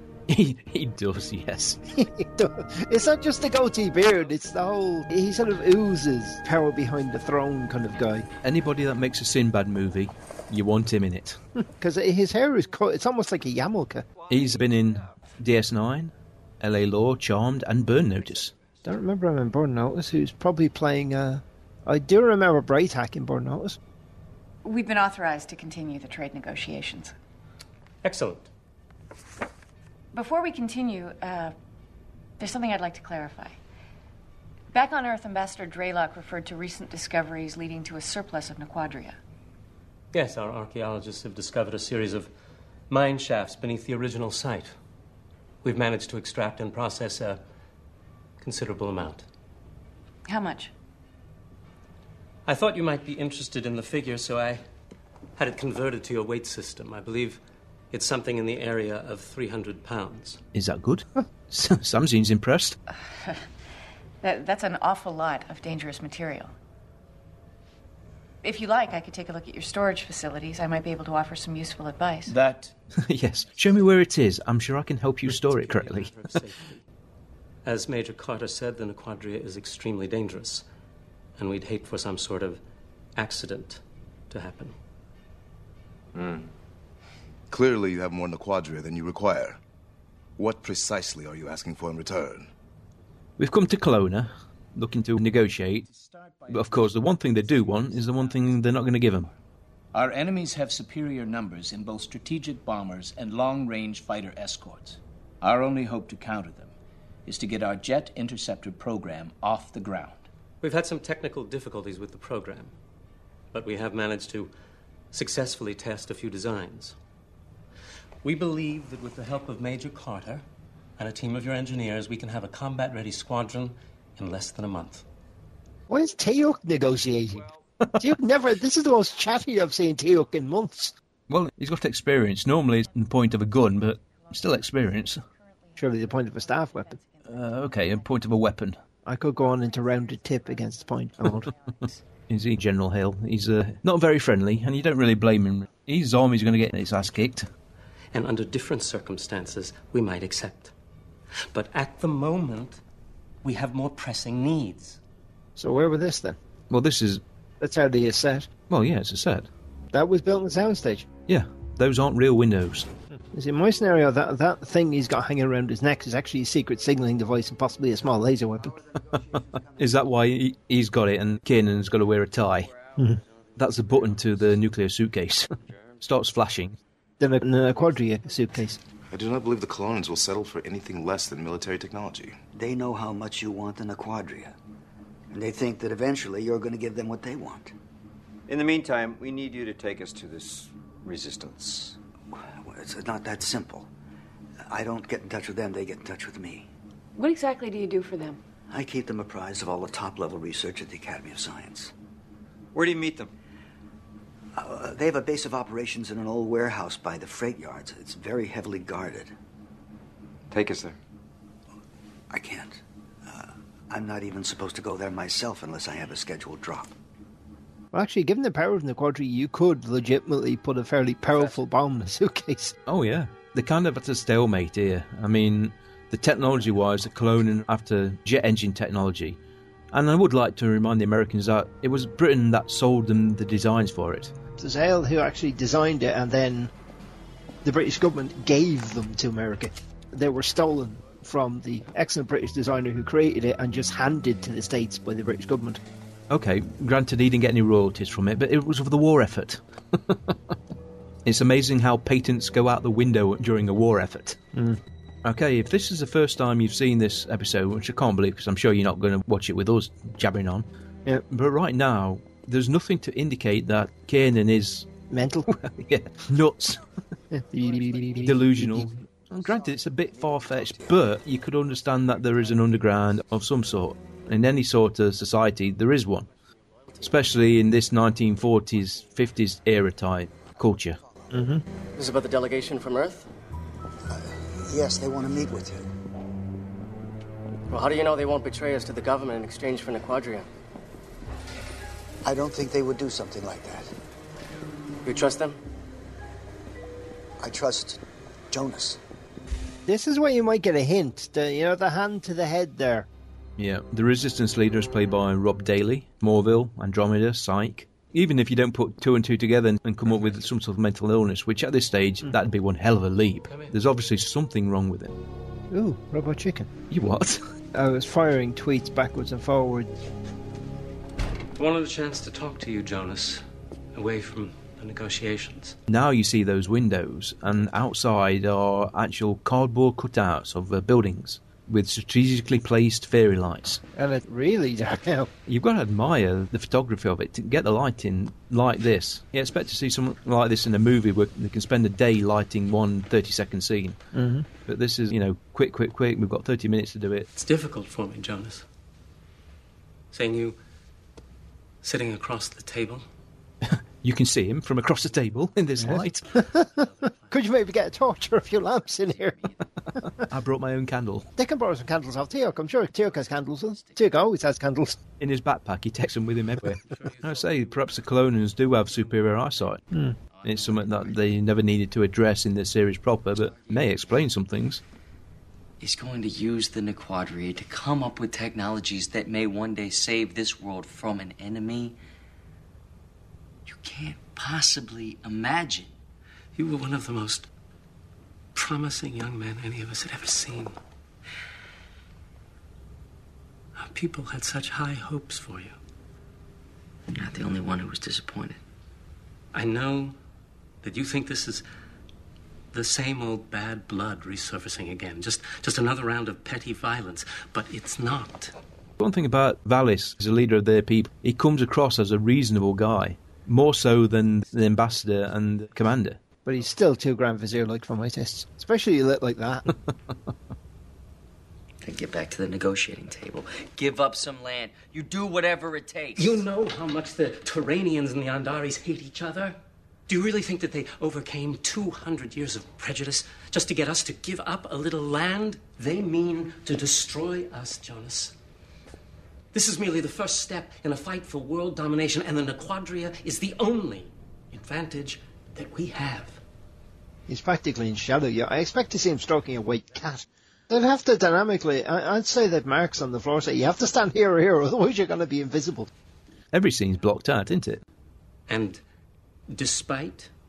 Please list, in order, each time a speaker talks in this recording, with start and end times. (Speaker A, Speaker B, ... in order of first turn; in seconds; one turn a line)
Speaker A: 0.3-1.8
Speaker B: 1.9-8.3
Speaker A: 8.4-11.4
Speaker B: 11.6-14.1
Speaker A: 14.3-18.5
Speaker B: 18.8-23.8
Speaker C: 24.6-27.1
Speaker D: 28.0-28.5
Speaker C: 30.1-31.6
Speaker C: 32.4-33.6
Speaker C: 34.7-39.2
Speaker D: 40.1-42.3
Speaker D: 42.9-44.7
Speaker D: 45.6-47.4
Speaker D: 48.4-49.2
Speaker C: 50.3-50.7
Speaker D: 52.5-54.6
Speaker D: 55.4-60.4
Speaker A: 60.5-62.8
Speaker C: 63.1-63.4
Speaker C: 64.2-66.5
Speaker C: 68.4-72.3
Speaker E: 72.3-72.7
Speaker A: 73.0-76.1
Speaker D: 75.4-76.8
Speaker D: 77.7-80.7
Speaker D: 81.4-82.6
Speaker D: 83.2-84.8
Speaker F: 87.5-89.6
Speaker F: 90.4-92.5
Speaker A: 93.4-95.9
Speaker E: 95.9-98.9
Speaker A: 96.5-99.3
Speaker E: 99.9-106.7
Speaker E: 107.3-110.3
Speaker D: 110.6-112.7
Speaker D: 113.5-114.5
Speaker D: 115.1-117.0
Speaker D: 118.2-120.5
Speaker D: 121.0-125.0
Speaker B: 125.9-130.9
Speaker A: 131.3-135.2
Speaker B: 135.8-137.0
Speaker A: 137.2-138.8
Speaker B: 139.1-141.5
Speaker A: 142.3-147.5
Speaker D: 148.1-150.7
Speaker D: 151.5-152.8
Speaker D: 153.4-155.0
Speaker B: 155.6-156.4
Speaker A: 156.7-157.2
Speaker B: 157.6-158.5
Speaker A: 158.7-159.5
Speaker B: 159.9-161.1
Speaker A: 161.3-162.9
Speaker B: 163.2-168.8
Speaker A: 169.7-172.7
Speaker B: 173.0-173.2
Speaker A: 173.6-176.8
Speaker B: 177.2-178.8
Speaker F: 179.1-182.4
Speaker G: 182.5-184.6
Speaker G: 185.3-187.7
Speaker H: 188.5-192.0
Speaker G: 192.3-193.9
Speaker G: 194.7-196.7
Speaker C: 197.2-198.4
Speaker G: 198.7-201.9
Speaker H: 202.7-203.3
Speaker G: 204.6-209.3
Speaker H: 210.5-210.9
Speaker G: 212.3-216.9
Speaker B: 217.9-222.8
Speaker A: 222.9-229.4
Speaker A: 229.9-234.3
Speaker B: 234.6-236.7
Speaker B: 237.6-245.8
Speaker A: 246.3-250.3
Speaker A: 251.2-254.4
Speaker B: 254.5-254.8
Speaker A: 255.2-260.7
Speaker A: 261.3-264.9
Speaker B: 265.1-265.6
Speaker A: 265.5-266.8
Speaker B: 267.3-268.9
Speaker A: 268.2-276.3
Speaker A: 277.0-281.0
Speaker B: 281.3-281.6
Speaker I: 282.0-283.3
Speaker G: 284.1-285.9
Speaker I: 287.7-290.5
Speaker G: 292.2-293.9
Speaker I: 295.1-295.6
Speaker G: 297.4-298.0
Speaker G: 298.5-299.0
Speaker B: 299.9-303.1
Speaker A: 303.6-315.2
Speaker D: 313.5-313.8
Speaker B: 315.7-316.7
Speaker A: 316.9-317.4
Speaker B: 317.7-319.9
Speaker D: 321.6-323.4
Speaker D: 323.9-325.8
Speaker A: 325.9-333.8
Speaker B: 333.9-335.3
Speaker A: 335.5-344.0
Speaker B: 344.1-344.5
Speaker A: 344.7-347.3
Speaker D: 347.3-348.6
Speaker D: 350.1-350.6
Speaker D: 351.8-353.1
Speaker A: 354.0-356.4
Speaker B: 355.8-359.5
Speaker A: 360.2-361.3
Speaker B: 361.4-365.0
Speaker A: 365.2-369.8
Speaker D: 366.8-367.8
Speaker B: 369.9-370.2
Speaker A: 370.4-374.8
Speaker J: 375.8-382.0
Speaker J: 383.7-385.9
Speaker D: 386.6-387.5
Speaker D: 388.6-390.8
Speaker D: 393.8-395.8
Speaker J: 397.1-398.6
Speaker D: 399.5-400.1
Speaker D: 400.8-401.6
Speaker D: 402.7-408.5
Speaker A: 409.0-416.2
Speaker B: 416.4-419.7
Speaker J: 421.8-426.4
Speaker D: 426.2-429.6
Speaker D: 430.1-438.4
Speaker D: 439.5-446.4
Speaker B: 447.3-455.9
Speaker A: 456.5-457.8
Speaker D: 458.5-458.8
Speaker D: 459.5-460.3